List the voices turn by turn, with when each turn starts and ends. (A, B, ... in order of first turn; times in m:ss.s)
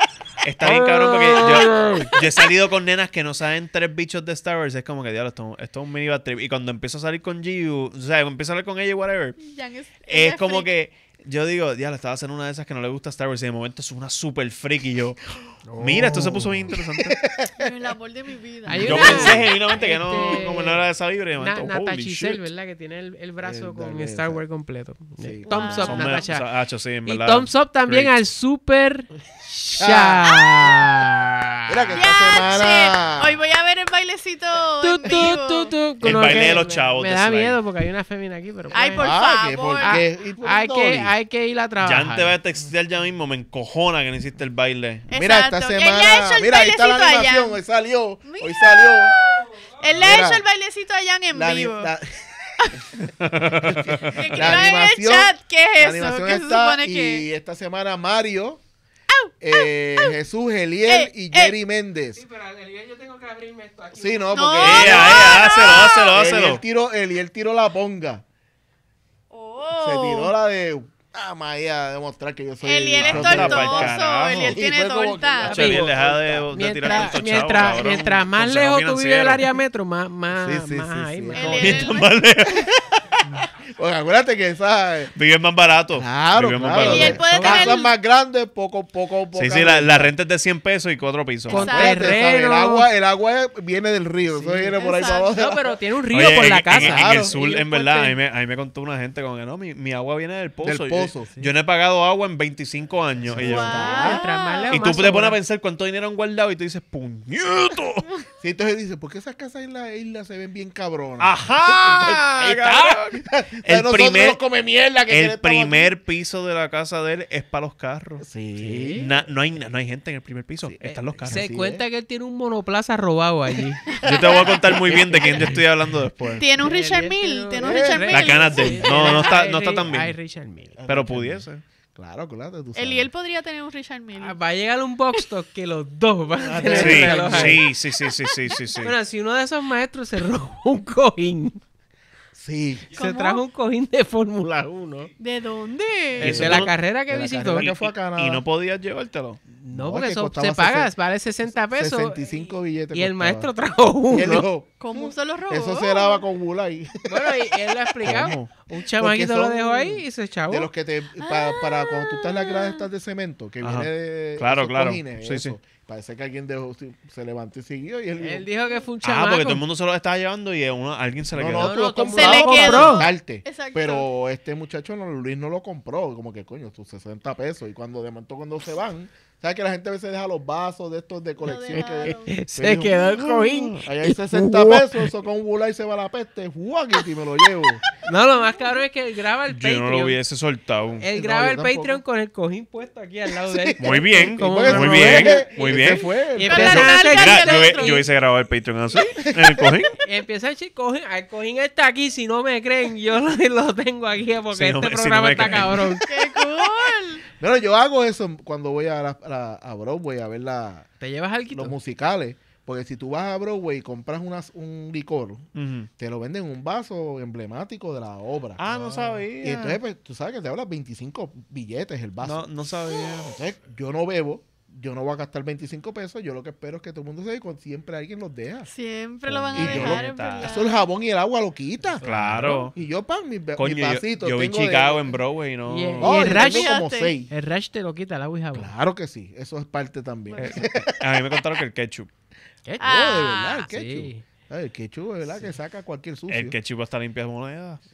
0:00.4-0:09.4 A
0:00.6-0:02.2 B
0:09.4-0:10.7 C
0:10.0-0:17.2 A
0:15.6-0:16.7 B
0:15.8-0:17.7 D
0:17.6-0:20.5 C
0:18.6-0:20.8 B
0:18.7-0:22.4 A
0:18.8-0:19.4 D
0:21.4-0:26.5 B
0:23.4-0:24.4 D
0:25.2-0:25.5 D
0:25.5-0:26.2 C
0:25.6-0:28.1 A
0:27.0-0:32.0 B
0:29.8-0:30.4 D
0:31.7-0:33.4 D
0:31.9-0:35.7 C
0:34.8-0:39.2 B
0:36.0-0:36.5 D
0:36.0-0:37.6 A
0:38.7-0:40.0 C
0:39.0-0:41.1 D
0:39.8-0:42.3 B
0:41.8-0:45.0 A
0:45.1-0:47.6 C
0:45.1-0:49.2 D
0:48.2-0:51.9 C
0:49.9-0:50.4 D
0:51.3-0:52.8 D
0:52.6-0:52.8 C
0:53.1-0:54.6 A
0:53.6-0:58.6 D
0:54.0-0:57.2 C
0:59.1-1:00.1 C
0:59.4-1:02.2 D
1:00.9-1:01.6 C
1:02.1-1:04.5 B
1:03.9-1:08.2 D
1:04.3-1:06.1 C
1:04.6-1:06.6 A
1:09.3-1:10.3 C
1:09.8-1:17.9 D
1:12.6-1:15.6 C
1:13.0-1:14.6 A
1:15.4-1:19.4 A
1:15.4-1:16.0 B
1:16.5-1:21.8 B
1:20.3-1:21.9 D
1:21.3-1:22.2 C
1:21.6-1:22.7 A
1:23.5-1:25.1 D
1:25.1-1:27.2 A
1:25.9-1:30.1 D
1:26.8-1:27.9 C
1:27.0-1:27.7 B
1:29.3-1:31.7 A
1:31.5-1:35.8 D
1:31.5-1:32.2 C
1:31.5-1:32.9 B
1:34.3-1:38.2 B
1:34.7-1:35.3 C
1:36.1-1:44.2 A
1:36.7-1:37.4 D
1:40.6-1:41.3 D
1:43.2-1:44.2 D
1:43.4-1:44.9 C
1:43.8-1:45.4 B
1:44.7-1:48.1 A
1:48.4-1:55.9 D
1:51.2-1:54.4 A
1:55.1-1:58.2 A
1:58.2-1:59.0 D
1:58.6-1:59.1 B
1:59.0-2:01.4 A
2:00.6-2:01.8 D
2:00.8-2:03.8 B
2:03.5-2:05.5 D
2:03.9-2:05.5 C
2:04.0-2:06.4 A
2:05.3-2:05.6 B
2:06.4-2:09.3 C
2:06.5-2:10.7 B
2:07.6-2:09.1 D
2:08.1-2:10.1 A
2:10.7-2:13.1 D
2:10.9-2:11.6 A
2:12.8-2:14.4 C
2:14.2-2:17.8 B
2:16.4-2:17.6 D
2:16.7-2:18.9 A
2:18.8-2:21.6 B
2:22.3-2:22.9 D
2:22.9-2:25.1 B
2:23.0-2:23.4 C
2:25.2-2:26.5 C
2:26.2-2:27.7 B
2:26.2-2:28.4 D
2:26.2-2:26.7 A
2:27.6-2:29.4 A
2:29.5-2:33.5 D
2:29.7-2:34.5 B
2:34.1-2:48.5 D
2:34.8-2:36.2 C
2:37.1-2:40.7 B
2:38.0-2:38.5 A
2:41.2-2:42.9 C
2:43.6-2:45.5 A
2:48.2-2:49.6 B
2:49.0-2:51.8 A
2:51.3-3:07.8 D
2:51.5-2:53.1 B
2:52.1-2:54.1 C
3:01.4-3:02.4 C
3:01.7-3:05.1 B
3:07.9-3:10.2 B
3:09.5-3:11.0 A
3:11.0-3:18.0 B
3:11.1-3:12.0 D
3:13.3-3:16.9 D
3:13.8-3:20.0 A
3:16.4-3:18.0 C
3:19.2-3:19.7 D
3:20.0-3:26.1 B
3:24.5-3:26.0 A
3:26.0-3:27.2 C
3:27.4-3:30.9 D
3:31.0-3:31.8 B
3:31.5-3:35.5 D
3:35.5-3:35.9 A
3:36.0-3:38.6 D
3:38.6-3:39.8 A
3:38.7-3:39.2 B
3:39.4-3:48.7 D
3:42.2-3:43.4 A
3:48.7-3:50.8 C
3:49.3-3:55.1 D
3:49.5-3:50.6 A
3:52.0-3:52.7 B
3:52.0-3:52.7 A
3:53.6-3:56.2 A
3:55.7-3:56.8 B
3:56.0-3:57.3 D
3:56.2-3:57.1 C
3:57.3-3:58.7 B
3:58.5-4:01.4 D
4:00.3-4:00.6 C
4:00.4-4:02.1 A
4:02.6-4:04.2 B
4:02.8-4:06.6 D
4:02.8-4:03.7 C
4:06.3-4:07.8 A